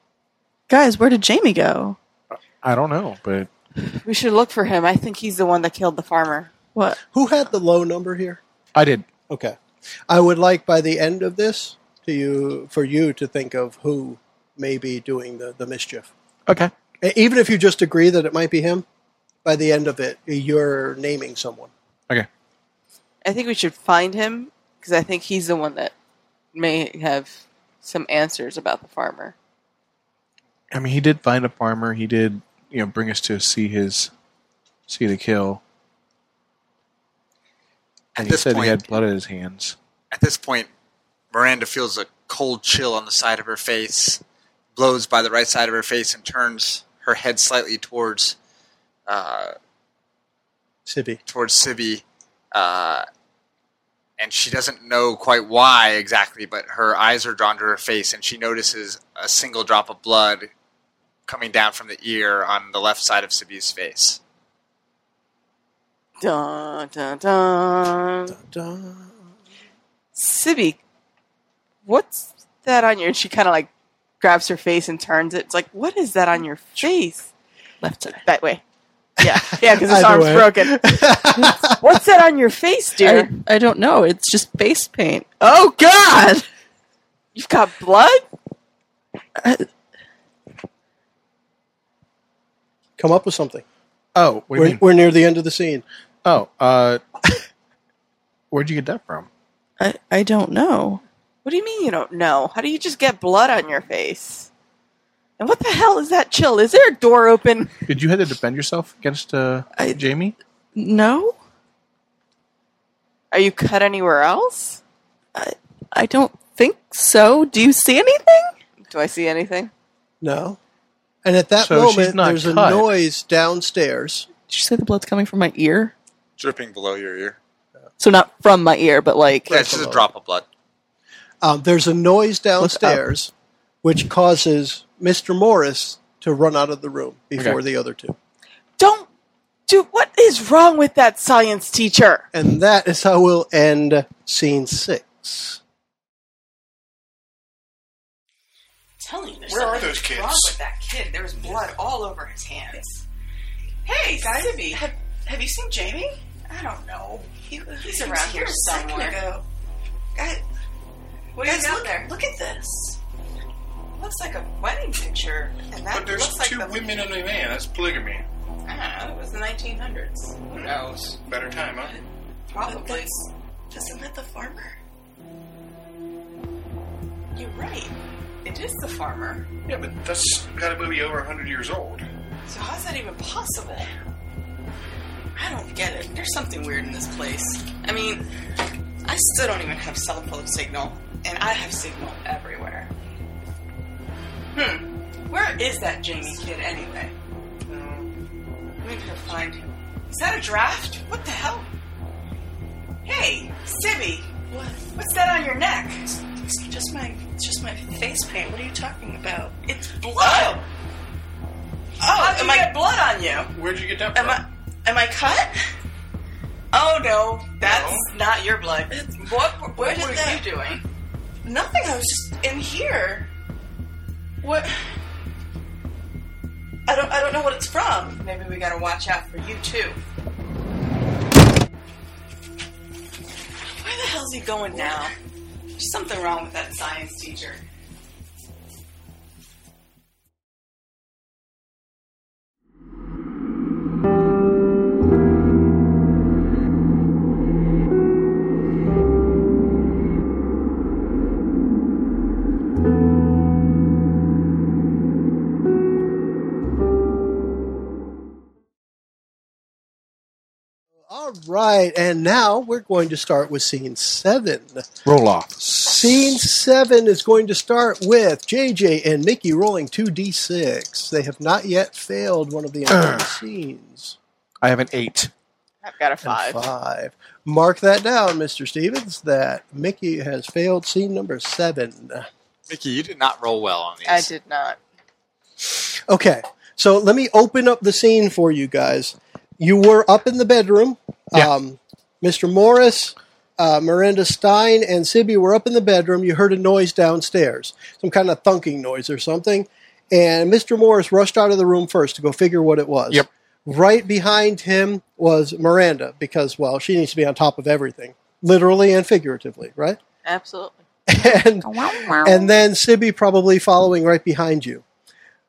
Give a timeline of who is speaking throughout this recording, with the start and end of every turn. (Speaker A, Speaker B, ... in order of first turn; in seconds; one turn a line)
Speaker A: 0.7-2.0
Speaker B: 2.4-3.5
Speaker C: 3.9-6.5
Speaker D: 7.1-8.4
Speaker B: 8.7-9.0
Speaker D: 9.3-9.6
Speaker D: 10.1-16.1
Speaker B: 16.5-16.7
Speaker D: 17.0-18.8
Speaker D: 19.4-21.7
Speaker C: 23.2-25.9
Speaker C: 26.5-29.3
Speaker B: 30.7-34.1
Speaker B: 34.9-35.6
Speaker B: 38.1-39.8
Speaker E: 38.2-38.8
Speaker E: 40.1-40.7
Speaker E: 41.3-44.2
Speaker E: 44.7-48.4
Speaker E: 49.1-49.5
Speaker D: 50.9-51.2
Speaker E: 51.3-53.0
Speaker E: 54.2-60.5
Speaker E: 61.3-64.2
Speaker C: 66.2-68.3
Speaker D: 68.4-69.1
Speaker C: 70.1-70.8
Speaker C: 71.8-73.7
Speaker C: 74.2-77.3
Speaker A: 77.8-78.2
Speaker C: 78.2-78.6
Speaker C: 79.2-80.8
Speaker D: 79.2-81.8
Speaker C: 81.8-83.3
Speaker A: 83.0-86.4
Speaker C: 87.3-88.2
Speaker A: 89.4-89.7
Speaker D: 93.0-93.6
Speaker B: 94.1-94.8
Speaker D: 94.5-95.8
Speaker B: 96.2-97.0
Speaker B: 98.5-99.3
Speaker A: 99.8-101.0
Speaker C: 101.4-104.5
Speaker C: 105.4-107.8
Speaker B: 107.9-110.3
Speaker A: 110.7-111.4
Speaker C: 113.3-114.8
Speaker A: 115.3-118.5
Speaker C: 118.9-119.7
Speaker D: 120.2-120.6
Speaker D: 121.2-124.3
Speaker B: 121.6-122.9
Speaker A: 124.5-125.9
Speaker E: 126.4-127.4
Speaker A: 128.0-129.5
Speaker D: 129.5-130.1
Speaker E: 129.5-130.4
Speaker D: 131.4-133.3
Speaker A: 132.6-133.0
Speaker D: 133.8-138.2
Speaker C: 138.8-139.1
Speaker C: 139.7-142.3
Speaker D: 142.3-145.6
Speaker F: 149.0-153.0
Speaker G: 149.5-150.6
Speaker F: 153.8-159.4
Speaker C: 153.9-154.8
Speaker C: 157.8-159.2
Speaker F: 160.2-160.4
Speaker F: 161.3-162.9
Speaker C: 161.4-162.0
Speaker F: 163.9-166.5
Speaker G: 165.9-168.2
Speaker C: 165.9-166.7
Speaker F: 168.6-170.8
Speaker C: 170.5-170.9
Speaker G: 170.5-171.9
Speaker C: 172.5-173.0
Speaker F: 172.5-174.8
Speaker F: 177.3-177.9
Speaker F: 178.4-179.3
Speaker C: 178.5-179.4
Speaker G: 179.7-182.1
Speaker F: 182.5-183.9
Speaker F: 185.3-188.2
Speaker F: 189.0-192.9
Speaker F: 194.5-197.1
Speaker G: 197.7-198.1
Speaker F: 198.8-201.7
Speaker F: 203.0-210.6
Speaker C: 210.2-210.5
Speaker F: 212.0-213.5
Speaker C: 212.1-212.7
Speaker G: 213.5-214.4
Speaker F: 214.1-215.5
Speaker F: 216.7-220.8
Speaker G: 217.6-218.1
Speaker C: 219.2-220.6
Speaker F: 221.4-223.3
Speaker F: 224.4-224.7
Speaker F: 226.9-230.0
Speaker F: 233.8-235.1
Speaker C: 234.2-235.1
Speaker F: 235.8-237.6
Speaker D: 261.1-264.9
Speaker B: 265.1-265.9
Speaker D: 265.7-274.1
Speaker B: 274.6-275.3
Speaker C: 275.8-276.6
Speaker D: 276.2-282.3
Speaker E: 282.7-284.3
Speaker C: 284.0-284.8
Speaker D: 285.6-310.0
Speaker C: 310.2-310.8
Speaker D: 311.1-311.7
Speaker A: 311.6-312.5
Speaker D: 312.2-314.8